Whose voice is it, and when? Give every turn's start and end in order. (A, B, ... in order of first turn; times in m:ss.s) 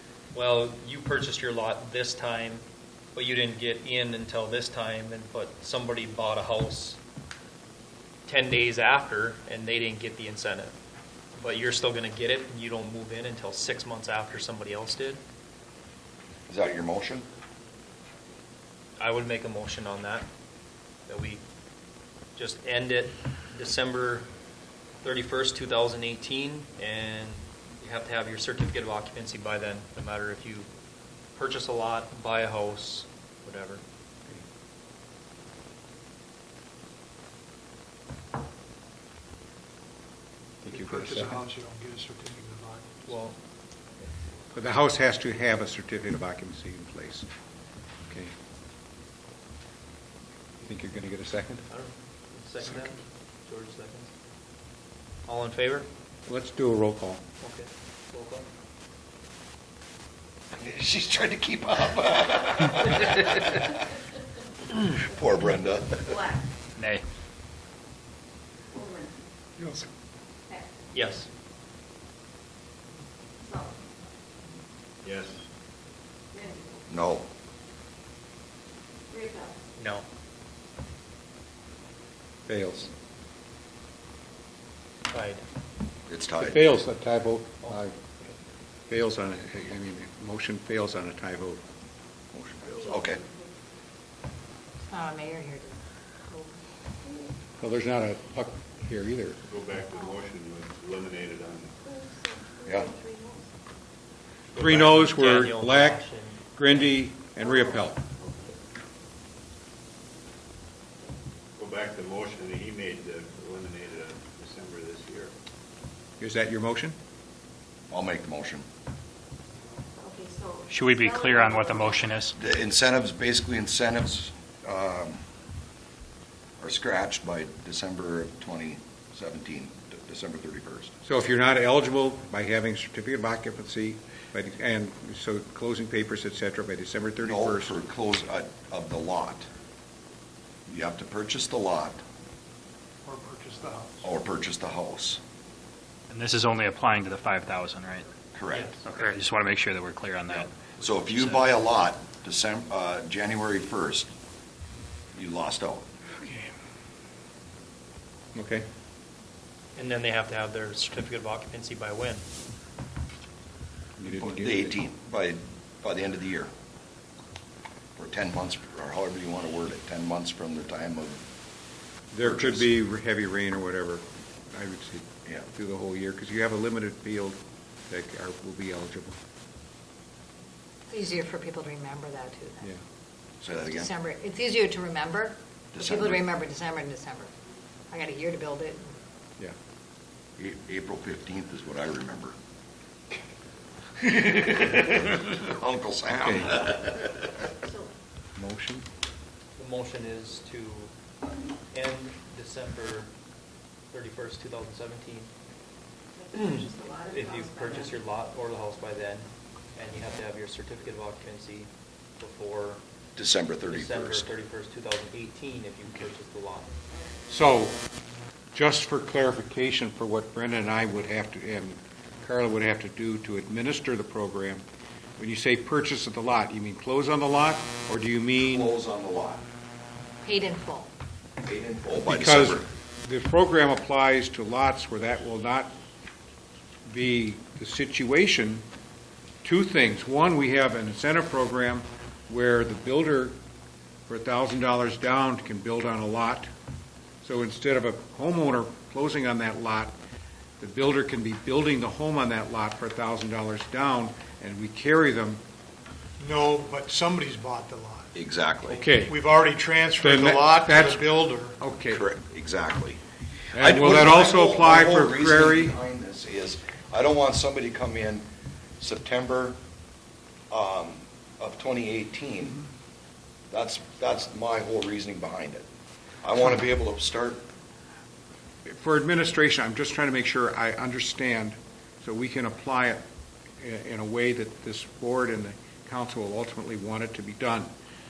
0:00.3-0:07.0 A
0:08.3-0:10.8 A
0:11.4-0:15.2 A
0:16.5-0:17.3 B
0:19.0-0:20.3 A
0:21.1-0:21.4 A
0:22.4-0:24.3 A
0:25.0-0:30.7 A
0:31.4-0:33.8 A
0:40.6-0:41.4 C
0:40.7-0:43.3 D
0:43.1-0:43.4 A
0:44.5-0:47.3 C
0:50.6-0:51.6 C
0:51.7-0:54.1 A
0:55.3-0:55.9 A
0:56.3-0:57.2 C
0:57.4-0:58.5 A
1:00.5-1:03.8 B
1:04.7-1:06.4 B
1:06.1-1:06.4 E
1:06.8-1:07.0 F
1:08.7-1:09.2 E
1:09.6-1:09.9 C
1:10.9-1:11.3 A
1:13.4-1:13.7 E
1:15.0-1:15.4 G
1:16.3-1:16.8 E
1:16.9-1:17.3 B
1:19.1-1:19.5 E
1:19.8-1:20.0 A
1:22.5-1:22.9 C
1:25.1-1:25.4 A
1:26.1-1:26.6 B
1:26.4-1:28.0 C
1:27.6-1:28.4 A
1:28.9-1:31.6 C
1:32.3-1:33.2 B
1:32.8-1:33.4 E
1:34.9-1:35.8 H
1:37.6-1:39.4 C
1:39.5-1:41.8 G
1:41.9-1:43.4 E
1:42.7-1:42.9 B
1:44.5-1:46.9 A
1:44.6-1:48.0 C
1:48.2-1:48.5 G
1:51.6-1:55.3 G
1:56.2-1:57.0 C
1:57.9-1:58.6 B
2:00.0-2:02.1 E
2:00.7-2:02.3 F
2:02.4-2:05.2 B
2:06.6-2:10.9 B
2:11.0-2:17.8 C
2:17.2-2:19.5 B
2:20.7-2:22.0 B
2:23.0-2:24.0 D
2:24.0-2:25.2 B
2:26.1-2:28.1 F
2:28.4-2:28.8 B
2:28.5-2:28.8 A
2:28.9-2:30.5 F
2:30.8-2:34.1 B
2:35.1-2:35.9 B
2:38.4-2:38.7 C
2:39.8-2:42.2 A
2:44.0-2:44.8 C
2:44.1-2:46.5 B
2:48.0-2:51.2 B
2:52.1-2:59.2 C
2:52.2-2:52.7 B
3:00.9-3:02.7 H
3:03.4-3:03.9 B
3:03.7-3:07.3 H
3:05.7-3:06.3 B
3:07.9-3:08.9 H
3:10.4-3:12.3 B
3:14.0-3:17.3 B
3:16.1-3:16.8 C
3:18.4-3:18.8 C
3:19.6-3:20.9 A
3:21.7-3:23.1 A
3:23.9-3:25.3 A
3:26.2-3:27.8 E
3:26.4-3:32.8 A
3:33.2-3:34.3 B
3:33.6-3:36.7 A
3:37.3-3:37.8 C
3:38.5-3:44.6 C
3:45.2-3:48.7 C
3:48.4-3:49.4 B
3:50.2-3:50.9 H
3:51.4-3:52.7 B
3:52.0-3:55.8 C
3:56.9-3:58.6 C
3:59.4-4:03.4 C
4:04.1-4:06.5 C
4:07.2-4:10.0 C
4:10.6-4:15.4 C
4:16.2-4:18.1 D
4:18.1-4:18.9 B
4:18.7-4:19.3 C
4:19.0-4:21.6 D
4:20.0-4:22.0 C
4:21.9-4:23.0 B
4:23.5-4:25.8 C
4:23.6-4:28.3 B
4:28.8-4:29.6 B
4:30.5-4:32.6 B
4:33.5-4:35.6 B
4:36.2-4:37.4 B
4:38.6-4:43.0 C
4:43.6-4:47.7 C